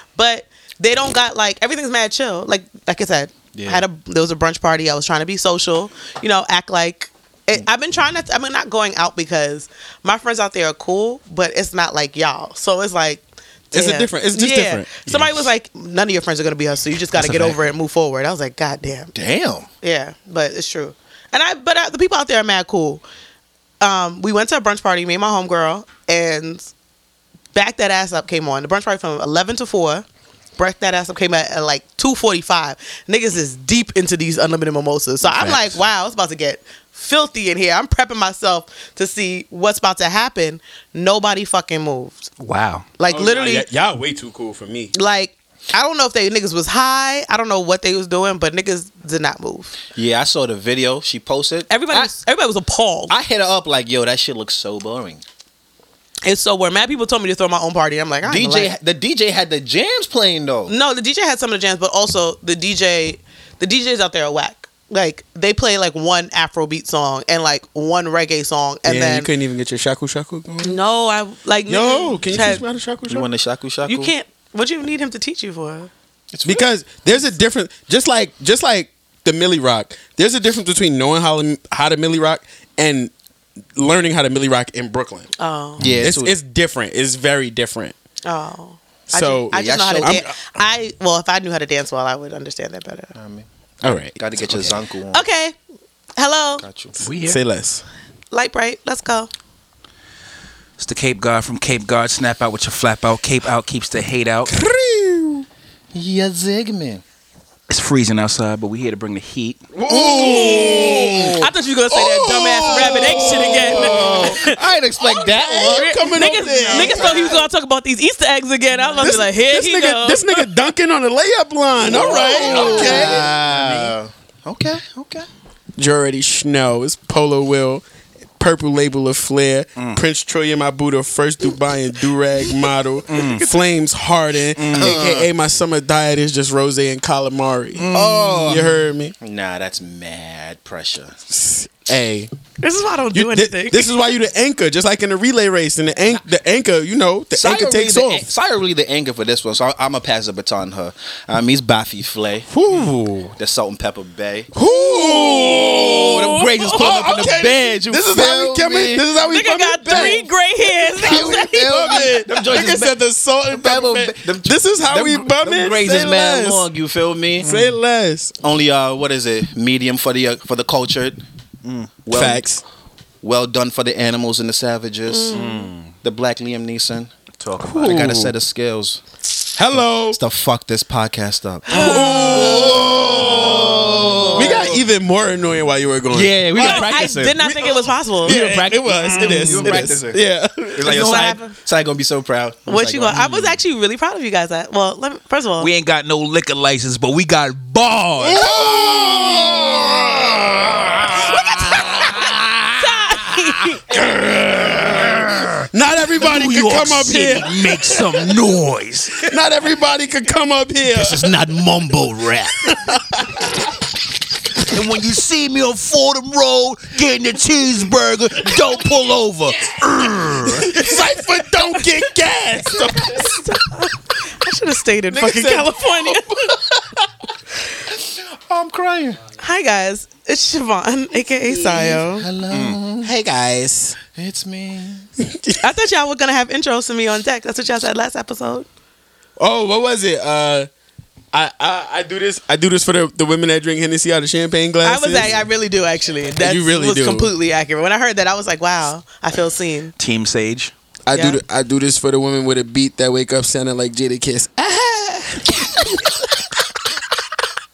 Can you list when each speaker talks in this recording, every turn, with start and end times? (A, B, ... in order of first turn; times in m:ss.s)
0:00.2-0:19.2 A
0:03.6-0:03.8 B
0:13.7-0:15.3 C
0:17.2-0:17.6 B
0:19.2-0:19.7 B
0:19.8-0:23.0 A
0:23.8-0:26.7 A
0:27.6-0:30.0 A
0:30.6-0:42.3 A
0:35.3-0:35.8 D
0:42.4-0:42.9 D
0:43.0-0:43.7 A
0:43.1-0:44.9 C
0:44.9-0:49.7 A
0:50.0-0:52.1 B
0:51.7-0:53.2 A
0:53.1-0:55.2 B
0:56.2-0:58.8 A
0:58.2-1:00.7 B
1:00.7-1:09.3 A
1:08.8-1:10.8 C
1:10.6-1:12.6 A
1:11.7-1:13.3 C
1:13.1-1:14.1 B
1:13.9-1:15.9 A
1:16.3-1:16.7 B
1:16.4-1:23.1 C
1:23.8-1:25.3 C
1:25.4-1:25.8 A
1:25.8-1:26.3 B
1:25.8-1:28.0 C
1:28.2-1:33.1 A
1:29.1-1:30.4 C
1:29.5-1:30.2 B
1:33.2-1:35.2 B
1:33.8-1:34.7 C
1:35.1-1:35.6 A
1:36.2-1:36.7 A
1:36.6-1:37.4 B
1:37.0-1:37.8 C
1:37.1-1:37.4 D
1:38.3-1:39.3 A
1:40.8-1:44.5 D
1:44.5-1:45.4 C
1:45.9-1:47.0 B
1:47.7-1:49.6 D
1:49.7-1:54.4 C
1:49.9-1:51.4 B
1:50.2-1:54.6 A
1:53.2-1:57.4 B
1:55.0-1:57.4 C
1:55.7-2:00.4 A
1:59.0-2:03.4 C
2:01.9-2:05.3 B
2:02.0-2:03.9 D
2:02.1-2:03.2 A
2:05.8-2:07.8 C
2:08.4-2:17.9 C
2:09.8-2:10.0 D
2:13.1-2:13.5 D
2:14.6-2:15.0 D
2:14.7-2:15.3 B
2:17.8-2:18.7 D
2:17.9-2:21.2 B
2:18.5-2:19.2 C
2:21.3-2:22.3 C
2:22.6-2:23.9 A
2:23.1-2:28.3 C
2:27.4-2:32.5 B
2:32.5-2:33.4 C
2:33.4-2:34.5 B
2:34.5-2:40.3 C
2:34.7-2:37.2 A
2:35.7-2:39.1 B
2:39.2-2:42.1 A
2:39.9-2:40.2 B
2:41.0-2:43.0 B
2:41.0-2:46.7 C
2:43.5-2:47.6 B
2:47.4-2:48.4 C
2:48.4-2:51.2 B
2:51.6-2:52.0 D
2:52.0-2:52.4 B
2:52.1-2:52.6 C
2:53.2-2:59.0 B
2:55.1-2:55.5 A
2:55.3-2:55.9 D
2:57.4-2:58.3 D
2:57.7-2:58.3 C
2:59.5-3:00.2 C
3:00.1-3:04.8 B
3:01.7-3:11.0 C
3:01.7-3:04.8 A
3:06.1-3:07.7 B
3:06.6-3:08.4 A
3:08.2-3:10.2 B
3:09.2-3:10.0 A
3:10.8-3:13.5 B
3:10.8-3:11.6 A
3:12.7-3:15.7 A
3:15.6-3:18.5 D
3:18.2-3:22.7 C
3:21.1-3:23.8 A
3:23.9-3:28.4 C
3:25.0-3:25.6 D
3:26.2-3:29.3 D
3:29.1-3:31.3 C
3:30.9-3:32.8 D
3:32.6-3:33.4 C
3:34.6-3:40.8 D
3:40.4-3:43.4 C
3:42.7-3:46.3 A
3:45.1-3:47.0 C
3:47.9-3:49.2 B
3:49.4-3:52.3 A
3:51.5-3:53.1 B
3:52.5-3:52.8 D
3:53.0-3:54.0 C
3:54.1-3:55.1 B
3:55.2-3:55.6 C
3:55.6-3:58.7 A
3:59.4-4:00.7 C
4:01.3-4:05.4 C
4:04.8-4:09.9 A
4:06.4-4:07.3 C
4:10.0-4:10.7 D
4:11.1-4:16.2 C
4:11.1-4:11.4 A